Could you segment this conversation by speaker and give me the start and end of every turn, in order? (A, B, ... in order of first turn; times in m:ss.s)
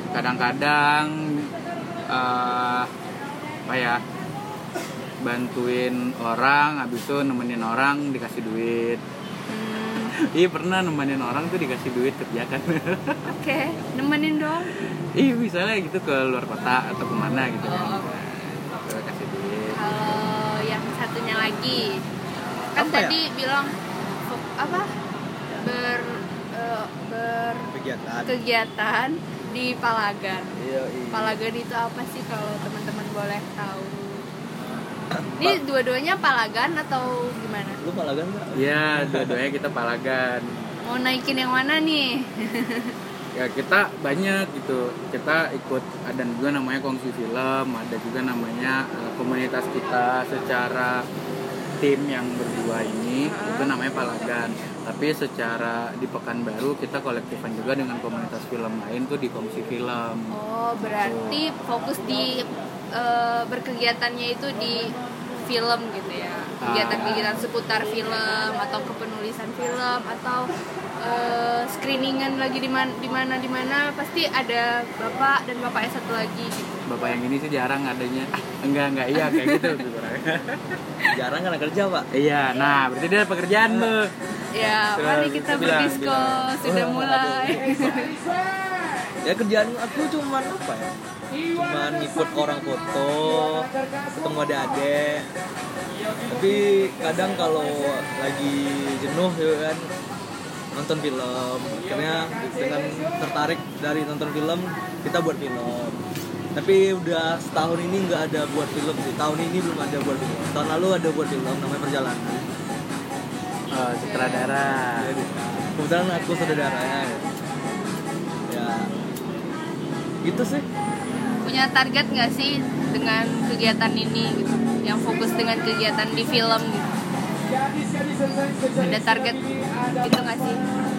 0:00.1-0:01.5 A
0:02.1-0:02.9 A
0:03.7-0:04.0 A
0:05.2-0:09.0 A
0:09.5-0:10.2 B
0:10.2-0:13.3 A
0:13.3-0:14.7 B
0:15.2-0:18.2 A
0:17.6-0:18.4 B
0:18.8-0:19.8 A
0:19.7-0:22.0 B
0:22.5-0:23.2 C
0:22.8-0:23.8 B
0:24.3-0:24.9 B
0:25.6-0:27.7 B
0:27.7-0:28.3 C
0:28.3-0:30.6 B
0:30.6-0:31.4 C
0:31.1-0:34.3 B
0:35.1-0:35.6 C
0:35.4-0:37.8 B
0:37.8-0:39.4 C
0:38.6-0:40.6 A
0:40.8-0:42.9 B
0:43.4-0:51.1 A
0:51.8-1:00.3 A
0:53.2-0:54.2 B
1:00.3-1:04.9 B
1:01.0-1:01.4 A
1:05.5-1:17.1 B
1:06.6-1:07.4 A
1:16.9-1:20.6 A
1:19.2-1:19.8 B
1:21.1-1:22.1 C
1:22.1-1:24.1 A
1:24.5-1:28.2 B
1:25.0-1:26.5 A
1:26.6-1:28.1 C
1:29.2-1:30.9 C
1:31.5-1:35.3 C
1:36.3-1:39.9 C
1:40.8-1:46.0 C
1:46.6-1:52.5 C
1:53.7-1:55.1 A
1:54.0-1:54.5 B
1:55.0-1:57.2 C
1:58.5-1:58.9 C
2:00.2-2:00.7 C
2:01.4-2:06.9 B
2:08.8-2:09.5 B
2:10.0-2:10.6 B